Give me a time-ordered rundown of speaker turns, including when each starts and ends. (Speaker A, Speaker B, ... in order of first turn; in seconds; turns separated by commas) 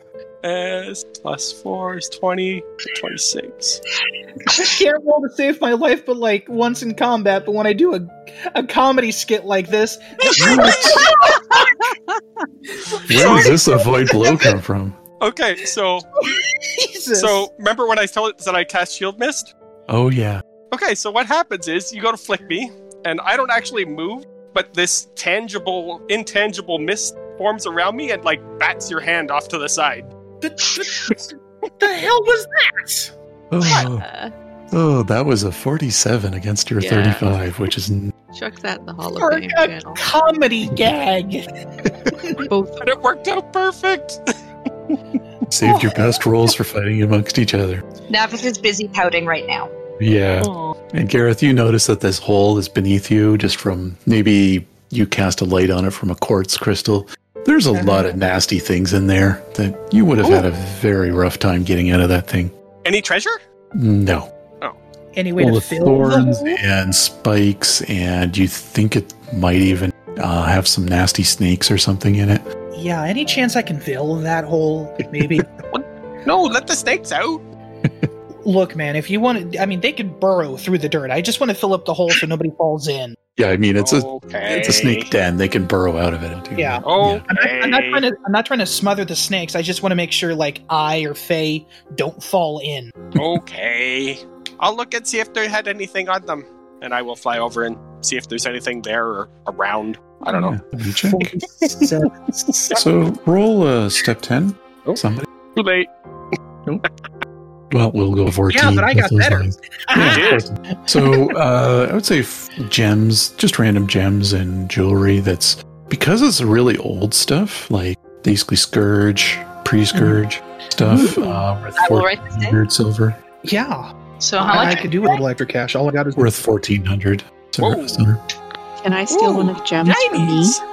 Speaker A: 0.4-3.8, Speaker B: 4.5-11.7, Speaker A: 10.4-11.1, Speaker C: 10.4-11.1, Speaker C: 13.1-15.0, Speaker A: 13.1-13.5, Speaker B: 13.1-13.5, Speaker A: 15.2-16.1, Speaker B: 16.3-17.5, Speaker A: 17.1-19.5, Speaker C: 19.9-20.4, Speaker A: 20.7-30.1, Speaker B: 30.4-33.1, Speaker C: 33.5-34.0, Speaker D: 33.7-34.3, Speaker C: 34.7-38.1, Speaker D: 36.8-37.3, Speaker D: 38.3-40.0, Speaker B: 39.2-42.4, Speaker D: 42.5-42.9, Speaker A: 42.8-44.2, Speaker C: 45.5-47.8, Speaker E: 48.1-49.7, Speaker C: 50.0-62.5, Speaker E: 50.4-50.7, Speaker B: 57.7-58.1, Speaker A: 62.8-63.4, Speaker C: 63.8-64.3, Speaker B: 65.1-66.6, Speaker C: 65.4-72.5, Speaker B: 72.7-75.5, Speaker C: 75.0-75.4, Speaker A: 75.7-77.4, Speaker B: 78.4-83.2, Speaker C: 83.4-87.2, Speaker A: 83.8-85.1, Speaker B: 86.5-92.9, Speaker A: 86.8-88.0, Speaker A: 93.2-100.5, Speaker C: 100.3-101.3, Speaker B: 101.0-102.3, Speaker A: 101.6-101.9, Speaker A: 102.5-102.8, Speaker C: 102.7-105.2, Speaker A: 105.5-105.9, Speaker C: 107.7-123.2, Speaker B: 108.5-110.4, Speaker A: 110.0-110.4, Speaker B: 119.9-120.2, Speaker B: 120.8-121.4, Speaker E: 121.8-122.5, Speaker B: 123.4-123.9, Speaker E: 124.2-125.2, Speaker B: 124.4-126.4, Speaker C: 126.2-128.2, Speaker A: 127.6-128.0, Speaker D: 128.8-130.6, Speaker A: 129.1-130.6